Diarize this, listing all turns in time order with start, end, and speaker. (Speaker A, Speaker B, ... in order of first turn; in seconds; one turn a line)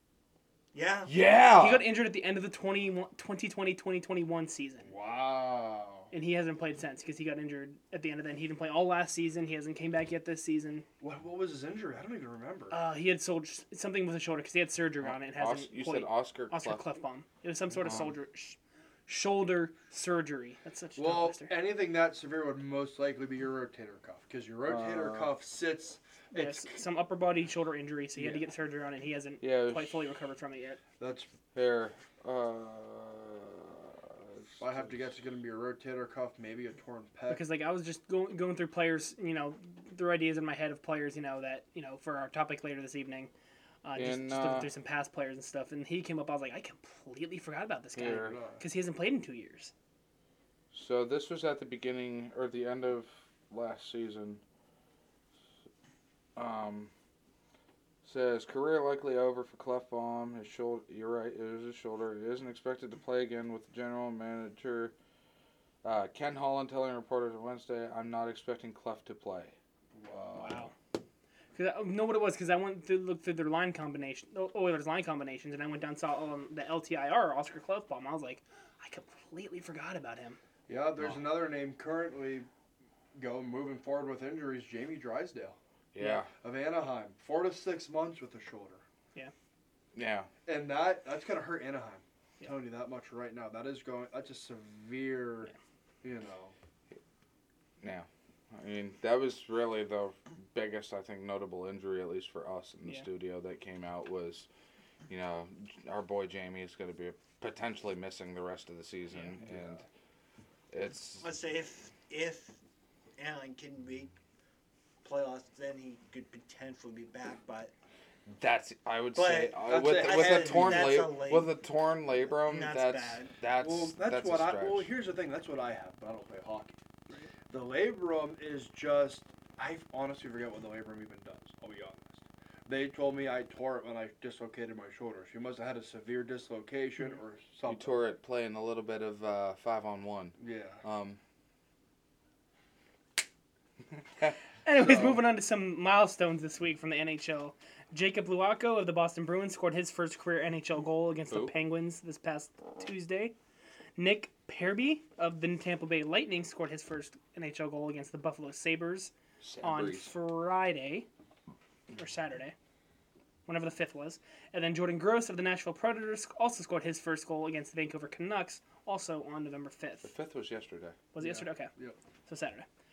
Speaker A: 0.7-1.1
Speaker B: 1.1-1.9
Speaker C: 1.6-4.9
Speaker D: 4.8-6.1
Speaker C: 6.1-10.8
Speaker D: 11.0-12.8
Speaker C: 12.7-21.5
Speaker B: 15.0-16.8
Speaker B: 17.8-18.1
Speaker D: 20.9-26.8
Speaker B: 24.7-25.3
Speaker C: 26.3-30.8
Speaker D: 28.2-28.4
Speaker B: 29.4-30.0
Speaker D: 31.0-31.3
Speaker B: 31.5-35.1
Speaker D: 34.6-37.4
Speaker C: 37.3-43.3
Speaker C: 43.8-49.7
Speaker B: 44.0-44.7
Speaker B: 48.0-48.4
Speaker D: 48.1-48.6
Speaker B: 50.7-54.4
Speaker B: 56.4-56.9
Speaker B: 58.0-64.9
Speaker B: 65.8-69.5
Speaker B: 70.1-70.6
Speaker C: 70.3-70.7
Speaker C: 71.5-80.4
Speaker D: 80.7-82.5
Speaker D: 83.1-85.6
Speaker B: 85.9-86.3
Speaker D: 86.4-88.8
Speaker B: 89.9-90.3
Speaker D: 90.5-95.5
Speaker D: 96.0-96.5
Speaker B: 97.8-104.5
Speaker B: 105.1-109.8
Speaker D: 109.4-109.8
Speaker B: 110.7-111.3
Speaker A: 111.2-112.6
Speaker A: 113.2-114.1
Speaker A: 115.0-117.7
Speaker B: 118.3-124.9
Speaker A: 119.1-121.5
Speaker D: 119.6-121.0
Speaker A: 122.3-123.3
Speaker D: 123.6-126.8
Speaker D: 127.5-137.9
Speaker B: 137.7-141.2
Speaker D: 140.4-140.8
Speaker C: 144.6-153.3
Speaker D: 144.8-145.2
Speaker B: 151.3-151.5
Speaker C: 154.0-161.1
Speaker B: 159.4-160.1
Speaker C: 161.9-162.5
Speaker C: 163.5-170.1
Speaker B: 170.0-171.0
Speaker C: 171.1-171.7
Speaker D: 171.2-172.0
Speaker C: 172.3-172.7